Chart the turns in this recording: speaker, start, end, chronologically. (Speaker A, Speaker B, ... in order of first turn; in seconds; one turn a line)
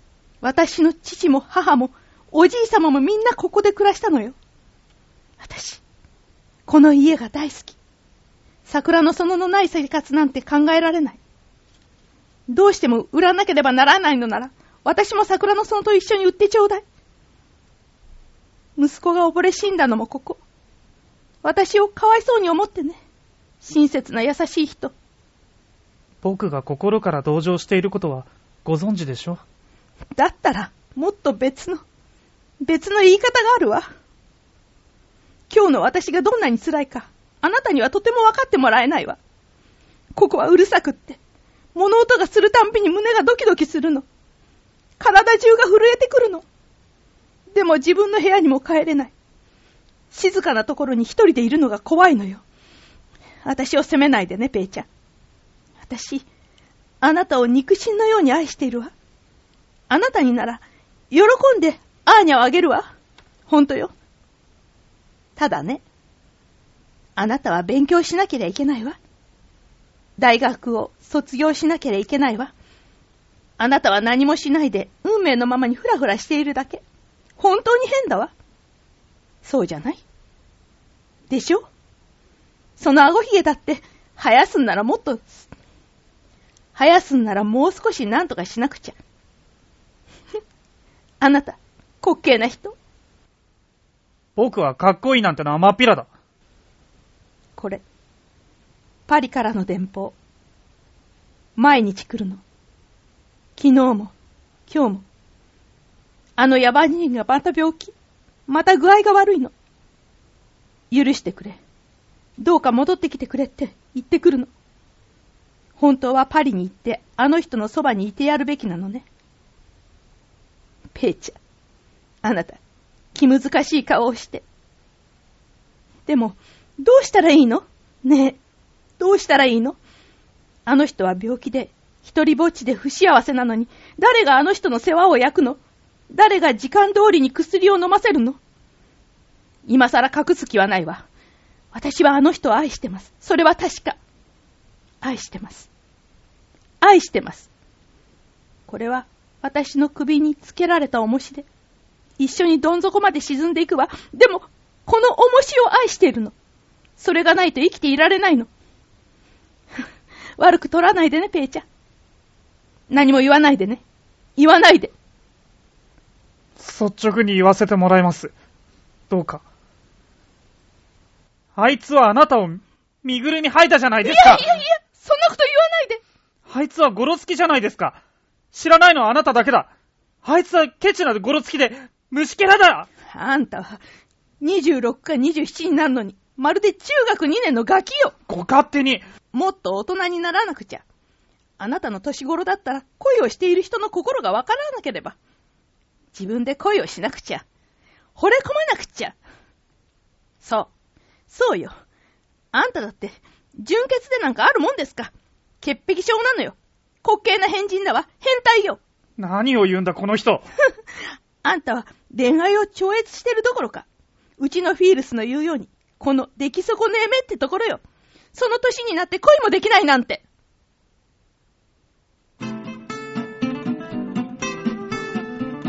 Speaker A: 0.4-4.3
Speaker A: 5.4-5.8
Speaker A: 6.7-7.8
Speaker A: 8.7-11.2
Speaker A: 12.5-16.8
Speaker A: 18.8-20.4
Speaker A: 21.4-23.0
Speaker A: 23.6-24.9
Speaker B: 26.2-29.4
Speaker A: 30.1-31.8
Speaker A: 32.6-33.9
Speaker A: 35.5-39.2
Speaker A: 40.1-41.2
Speaker A: 41.7-44.0
Speaker A: 45.0-46.4
Speaker A: 47.5-49.1
Speaker A: 50.1-52.4
Speaker A: 53.4-54.9
Speaker A: 55.8-56.2
Speaker A: 57.0-58.9
Speaker A: 59.9-62.9
Speaker A: 63.5-63.9
Speaker A: 65.4-65.8
Speaker A: 67.2-69.0
Speaker A: 70.2-72.5
Speaker A: 73.6-76.8
Speaker A: 77.4-78.3
Speaker A: 79.4-80.0
Speaker A: 81.3-81.7
Speaker A: 82.8-85.5
Speaker A: 86.7-89.0
Speaker A: 91.2-92.7
Speaker B: 94.3-96.1
Speaker A: 97.6-97.8
Speaker A: 99.1-100.1
Speaker A: 101.5-102.4
Speaker A: 103.6-104.1
Speaker A: 104.7-105.0
Speaker A: 106.4-107.9
Speaker A: 108.5-109.5
Speaker A: 110.9-111.6
Speaker A: 112.4-114.5
Speaker A: 115.8-119.0
Speaker A: 120.9-121.4
Speaker A: 122.2-122.6
Speaker A: 123.1-124.4
Speaker A: 126.1-128.4
Speaker A: 129.0-129.8
Speaker A: 130.7-135.6
Speaker A: 136.1-138.4
Speaker A: 139.6-141.1
Speaker A: 141.7-144.0
Speaker A: 145.0-145.7
Speaker A: 146.8-147.5
Speaker A: 148.7-151.4
Speaker A: 152.2-156.3
Speaker A: 157.0-158.5
Speaker A: 160.4-161.6
Speaker A: 162.9-163.8
Speaker A: 164.4-164.9
Speaker B: 166.6-168.3
Speaker B: 169.1-169.4
Speaker B: 171.6-174.4
Speaker A: 174.0-176.0
Speaker B: 176.5-178.0
Speaker B: 178.5-179.7
Speaker B: 180.2-182.9
Speaker A: 183.1-183.8
Speaker A: 184.4-188.2
Speaker B: 188.3-189.1
Speaker A: 189.3-190.8
Speaker A: 191.6-195.2
Speaker A: 196.1-197.4
Speaker A: 198.2-199.2
Speaker A: 200.4-200.7
Speaker A: 201.3-201.7
Speaker A: 202.5-208.8
Speaker B: 209.2-210.4
Speaker A: 211.4-213.8
Speaker A: 214.4-217.8
Speaker A: 218.3-220.2